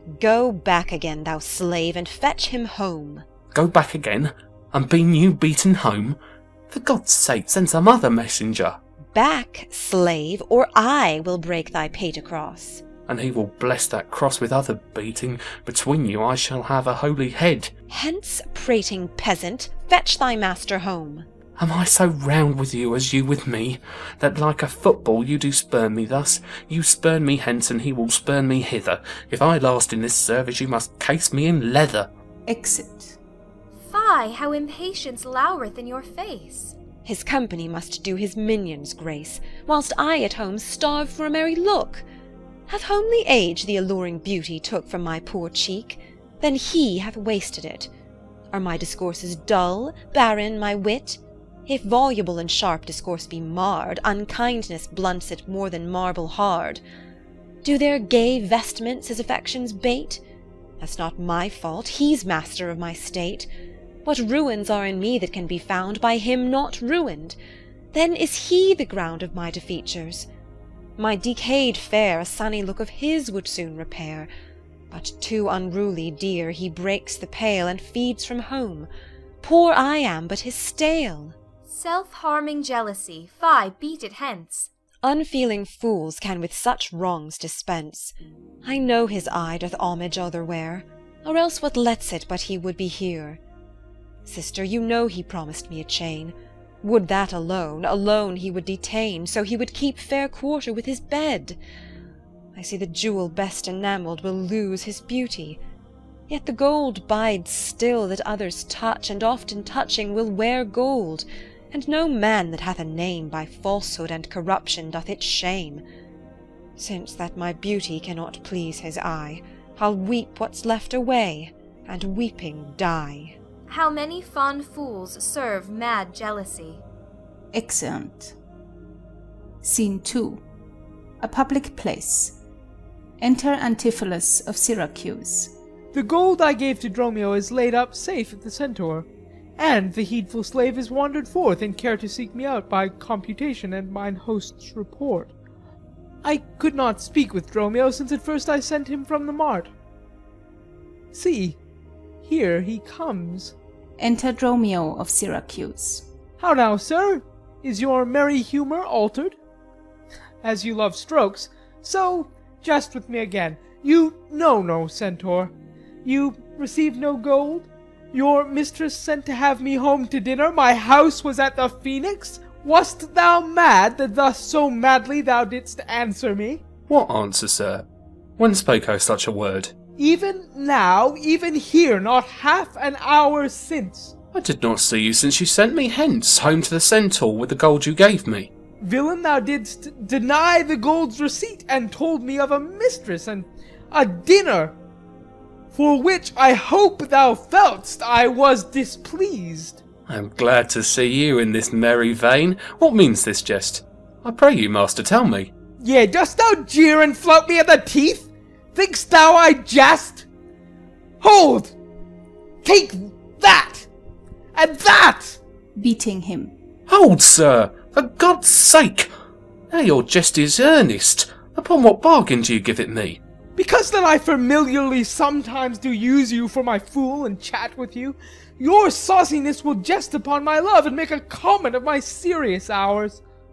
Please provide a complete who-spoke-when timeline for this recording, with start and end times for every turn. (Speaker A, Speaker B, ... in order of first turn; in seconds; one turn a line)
Speaker A: 0.2-3.2
Speaker B: 3.5-6.2
Speaker B: 6.7-8.8
Speaker A: 9.1-12.8
Speaker B: 13.1-17.7
Speaker A: 17.9-21.2
Speaker B: 21.6-32.1
Speaker C: 32.5-33.2
Speaker D: 33.8-36.8
Speaker A: 37.0-42.0
Speaker A: 42.7-47.9
Speaker A: 48.5-56.8
Speaker A: 57.6-60.2
Speaker A: 60.8-63.5
Speaker A: 64.0-67.4
Speaker A: 67.9-70.3
Speaker A: 71.0-74.3
Speaker A: 74.9-78.9
Speaker A: 79.4-81.3
Speaker D: 81.7-84.7
Speaker A: 85.0-93.4
Speaker A: 94.3-101.6
Speaker A: 102.6-105.6
Speaker A: 106.3-115.8
Speaker A: 116.8-123.4
Speaker D: 123.7-126.8
Speaker C: 127.5-128.4
Speaker C: 129.6-130.4
Speaker C: 131.2-132.4
Speaker C: 133.2-135.5
Speaker E: 135.9-145.3
Speaker E: 146.2-149.7
Speaker E: 151.1-151.6
Speaker E: 152.2-153.6
Speaker C: 154.0-156.1
Speaker E: 156.4-159.4
Speaker E: 160.4-176.6
Speaker B: 176.9-177.9
Speaker B: 178.4-179.7
Speaker E: 180.0-184.1
Speaker B: 184.3-188.5
Speaker E: 188.8-194.8
Speaker E: 195.7-199.8
Speaker B: 200.1-205.5
Speaker E: 205.8-210.3
Speaker E: 211.2-211.8
Speaker E: 212.6-213.9
Speaker E: 214.5-215.4
Speaker C: 215.8-216.5
Speaker B: 216.9-219.1
Speaker B: 219.7-223.2
Speaker E: 223.6-233.2